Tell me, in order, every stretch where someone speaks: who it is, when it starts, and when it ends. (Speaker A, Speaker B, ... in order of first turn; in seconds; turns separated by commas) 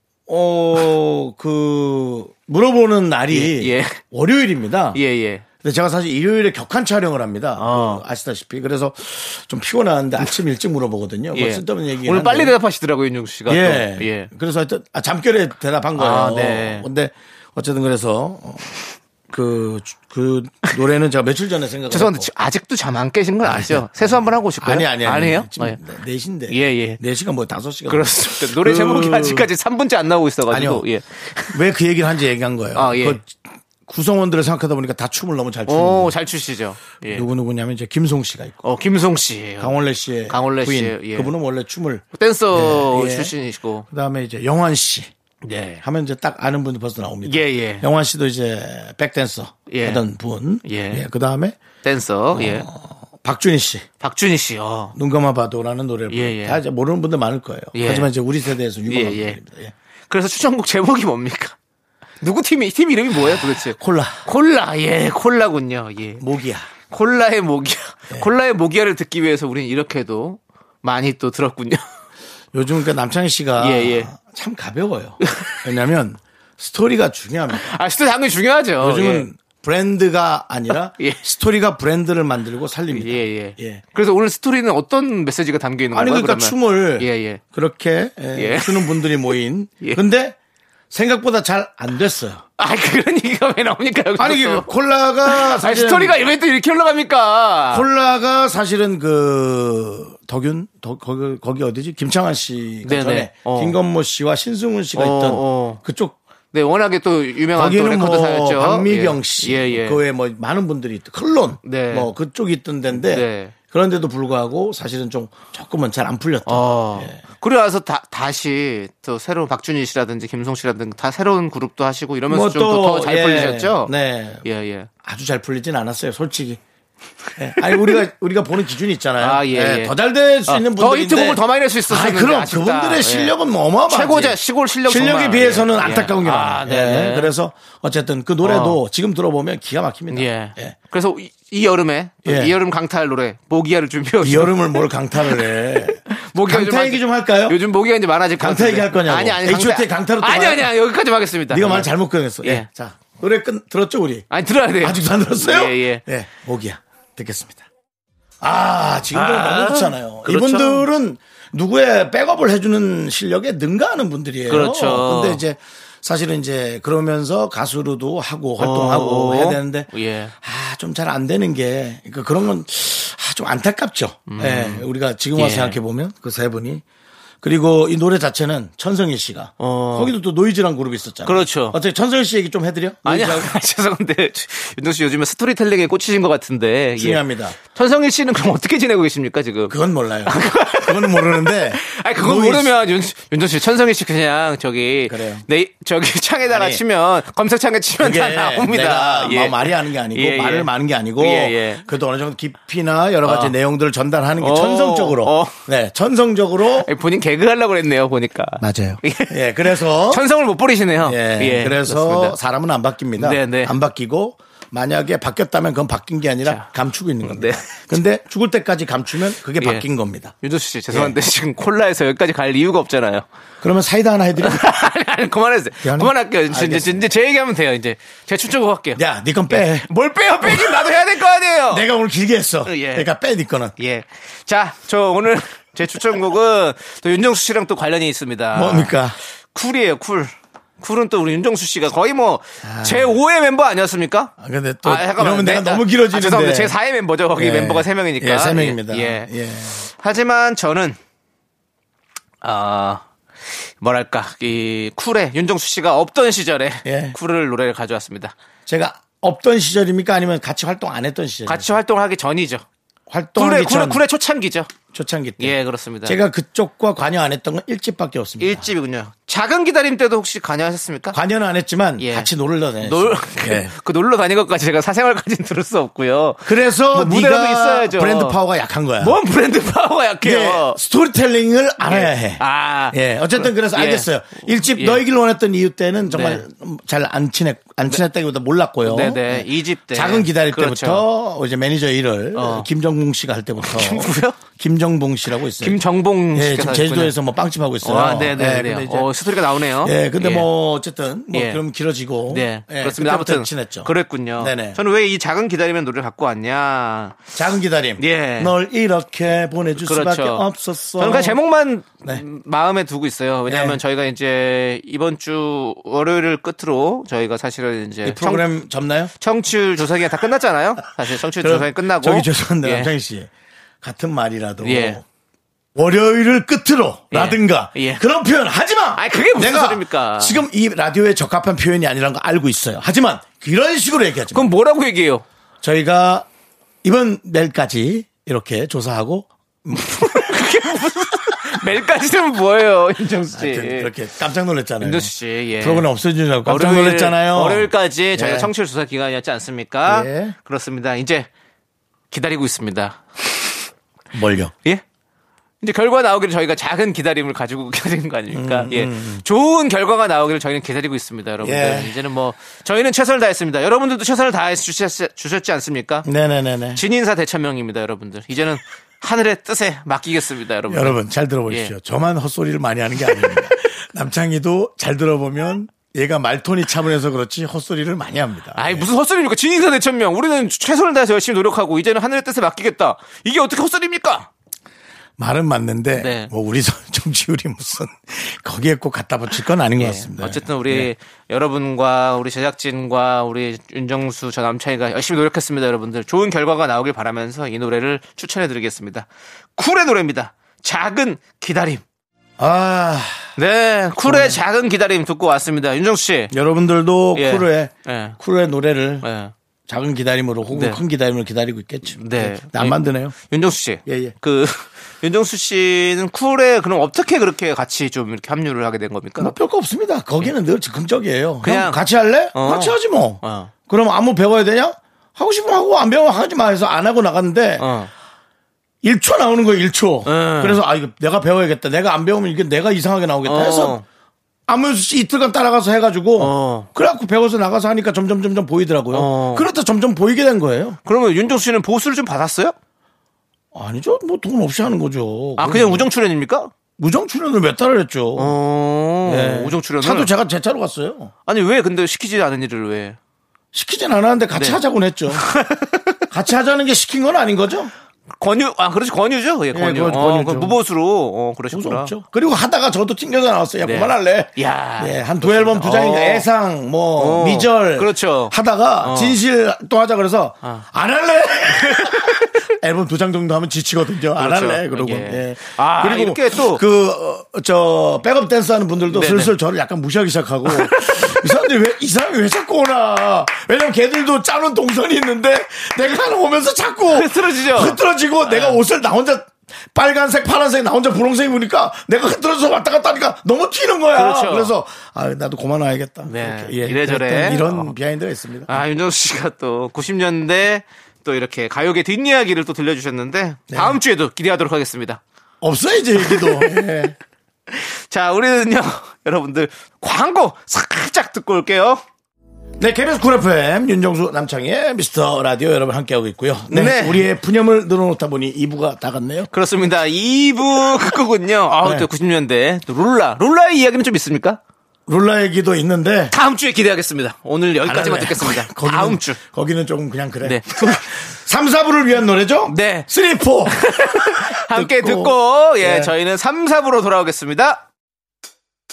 Speaker A: 0.3-5.0, Speaker B: 3.3-4.0, Speaker B: 4.9-5.4, Speaker A: 5.6-12.6, Speaker B: 7.6-8.0, Speaker B: 11.3-14.3, Speaker A: 13.5-18.8, Speaker B: 15.9-16.9, Speaker A: 19.3-22.3, Speaker B: 21.9-25.8, Speaker A: 23.4-29.5, Speaker B: 26.5-27.0, Speaker B: 27.9-31.6, Speaker A: 30.5-30.9, Speaker A: 31.5-36.1, Speaker B: 32.8-33.2, Speaker B: 35.7-37.3, Speaker A: 37.1-38.6, Speaker B: 38.6-39.7, Speaker A: 39.6-43.3, Speaker B: 40.3-41.3, Speaker B: 42.1-43.9, Speaker A: 43.9-45.1, Speaker B: 45.4-45.8, Speaker A: 45.8-51.6, Speaker B: 47.2-47.9, Speaker B: 49.7-50.0, Speaker B: 50.6-51.0, Speaker B: 51.8-52.7, Speaker A: 52.4-53.9, Speaker B: 54.0-55.0, Speaker A: 55.0-59.7, Speaker B: 56.1-56.6, Speaker B: 57.7-58.1, Speaker B: 58.9-59.4, Speaker B: 60.1-61.6, Speaker B: 62.2-66.2, Speaker A: 63.4-64.2, Speaker A: 66.2-66.7, Speaker B: 66.9-71.8, Speaker A: 72.5-77.7, Speaker B: 73.6-74.1, Speaker B: 75.2-75.6, Speaker B: 77.5-79.3, Speaker A: 78.8-83.8, Speaker B: 82.9-87.4, Speaker A: 85.9-90.4, Speaker B: 88.3-89.1, Speaker A: 90.9-92.4, Speaker B: 92.6-94.7, Speaker A: 94.2-96.2, Speaker B: 95.2-97.9, Speaker A: 97.7-106.2, Speaker B: 102.8-103.8, Speaker B: 105.0-105.8, Speaker B: 106.5-110.0, Speaker A: 107.5-117.2, Speaker B: 111.6-112.1, Speaker B: 112.9-113.5, Speaker B: 116.5-123.9, Speaker A: 122.3-124.5, Speaker B: 124.4-124.9, Speaker A: 125.0-126.6, Speaker A: 127.4-140.8, Speaker B: 127.6-128.0, Speaker B: 129.2-129.9, Speaker B: 130.5-133.3, Speaker B: 133.9-137.3, Speaker B: 138.4-138.8, Speaker B: 140.1-151.9, Speaker A: 142.2-142.5, Speaker A: 144.2-147.6, Speaker A: 148.4-150.7, Speaker A: 151.5-154.3, Speaker B: 154.3-156.0, Speaker A: 154.8-157.7, Speaker A: 158.4-176.8, Speaker B: 159.1-160.9, Speaker B: 164.5-165.4, Speaker B: 168.6-170.3, Speaker B: 174.3-175.8, Speaker A: 177.4-183.6, Speaker B: 179.6-180.1, Speaker B: 181.2-181.8, Speaker B: 183.1-201.8, Speaker A: 187.0-187.6, Speaker A: 189.7-192.7, Speaker A: 195.1-195.4, Speaker A: 196.5-196.8, Speaker A: 198.0-206.9, Speaker B: 203.2-203.6, Speaker B: 204.4-205.6, Speaker B: 206.8-212.4, Speaker A: 208.6-210.2, Speaker A: 211.0-220.3, Speaker B: 213.2-213.7, Speaker B: 216.4-216.7, Speaker B: 217.2-217.9, Speaker B: 219.6-219.9, Speaker B: 220.4-223.3, Speaker A: 220.9-221.2, Speaker A: 223.6-224.8, Speaker B: 224.4-231.9, Speaker A: 225.8-227.0, Speaker A: 229.0-231.0, Speaker A: 231.7-233.7, Speaker B: 232.7-233.1, Speaker B: 233.8-238.9, Speaker A: 238.5-239.2, Speaker B: 239.5-249.3, Speaker A: 242.6-243.1, Speaker A: 244.4-246.8, Speaker A: 247.3-249.9, Speaker B: 249.8-251.0, Speaker B: 252.4-253.1, Speaker B: 253.8-258.3, Speaker A: 256.9-257.2, Speaker A: 258.7-261.7, Speaker B: 261.5-262.6, Speaker A: 263.1-264.0, Speaker B: 263.4-264.7, Speaker A: 264.9-268.7, Speaker B: 265.4-266.2, Speaker B: 268.4-271.2, Speaker A: 271.1-273.7, Speaker B: 272.0-272.3, Speaker B: 272.8-278.4, Speaker A: 276.4-279.2, Speaker B: 279.0-280.8, Speaker A: 280.2-299.2, Speaker B: 281.8-285.0, Speaker B: 286.1-286.4, Speaker B: 288.8-291.1, Speaker B: 292.4-292.7, Speaker B: 293.6-294.4, Speaker B: 295.6-297.1, Speaker B: 297.8-300.5, Speaker A: 299.8-304.8, Speaker B: 301.3-301.6, Speaker B: 302.3-307.3, Speaker A: 307.3-311.4, Speaker B: 308.0-308.5, Speaker B: 309.8-310.5, Speaker B: 311.0-318.5, Speaker A: 313.5-313.8, Speaker A: 318.0-319.1, Speaker B: 319.2-322.9, Speaker A: 321.4-323.3, Speaker A: 323.8-325.0, Speaker B: 324.6-325.0, Speaker A: 325.8-334.5, Speaker B: 327.1-328.0, Speaker B: 329.0-330.4, Speaker B: 334.3-335.2, Speaker A: 335.6-336.3, Speaker A: 336.8-340.3, Speaker B: 339.8-343.9, Speaker A: 343.3-348.5, Speaker B: 344.8-345.9, Speaker B: 346.5-351.3, Speaker A: 349.9-350.4, Speaker B: 352.1-353.6, Speaker A: 354.1-354.5, Speaker B: 355.6-366.1, Speaker A: 358.3-359.2, Speaker A: 361.4-362.0, Speaker A: 366.1-366.8, Speaker B: 366.8-371.0, Speaker A: 370.7-378.9, Speaker B: 378.6-384.3, Speaker A: 385.2-390.9, Speaker B: 386.0-386.3, Speaker B: 389.8-401.8, Speaker A: 402.4-403.3, Speaker B: 403.4-406.3, Speaker A: 404.0-404.4, Speaker A: 406.3-409.1, Speaker B: 407.1-408.2, Speaker B: 409.0-409.3, Speaker A: 409.7-413.1, Speaker B: 410.5-410.8, Speaker B: 412.0-419.4, Speaker A: 413.9-414.1, Speaker A: 419.2-427.7, Speaker B: 421.4-421.8, Speaker B: 422.3-423.5, Speaker B: 427.6-427.9, Speaker A: 428.8-433.8, Speaker B: 430.1-430.6, Speaker B: 433.2-433.8, Speaker A: 434.5-440.8, Speaker B: 436.2-436.7, Speaker B: 438.9-439.5, Speaker B: 440.9-442.6, Speaker A: 443.5-445.9, Speaker B: 445.4-446.5, Speaker A: 446.8-448.4, Speaker B: 448.2-450.1, Speaker A: 449.0-451.1, Speaker B: 451.3-453.0, Speaker A: 453.5-455.3, Speaker B: 454.4-456.0, Speaker A: 456.1-457.7, Speaker B: 458.2-461.9, Speaker A: 459.5-460.6, Speaker A: 461.5-498.6, Speaker B: 463.6-466.3, Speaker B: 467.0-469.2, Speaker B: 471.6-472.3, Speaker B: 474.2-476.6, Speaker B: 478.9-479.3, Speaker B: 480.5-481.3, Speaker B: 486.9-488.6, Speaker B: 493.9-494.5, Speaker B: 496.1-497.7, Speaker B: 498.5-505.0, Speaker A: 503.5-503.8, Speaker A: 505.4-506.9, Speaker B: 506.0-506.7, Speaker B: 507.5-511.8, Speaker A: 512.6-519.3, Speaker B: 516.5-517.1, Speaker B: 519.3-524.4, Speaker A: 521.5-521.9, Speaker A: 524.9-526.1, Speaker B: 526.1-529.2, Speaker A: 527.6-535.9, Speaker B: 530.2-530.9, Speaker B: 532.5-532.9, Speaker B: 533.5-537.6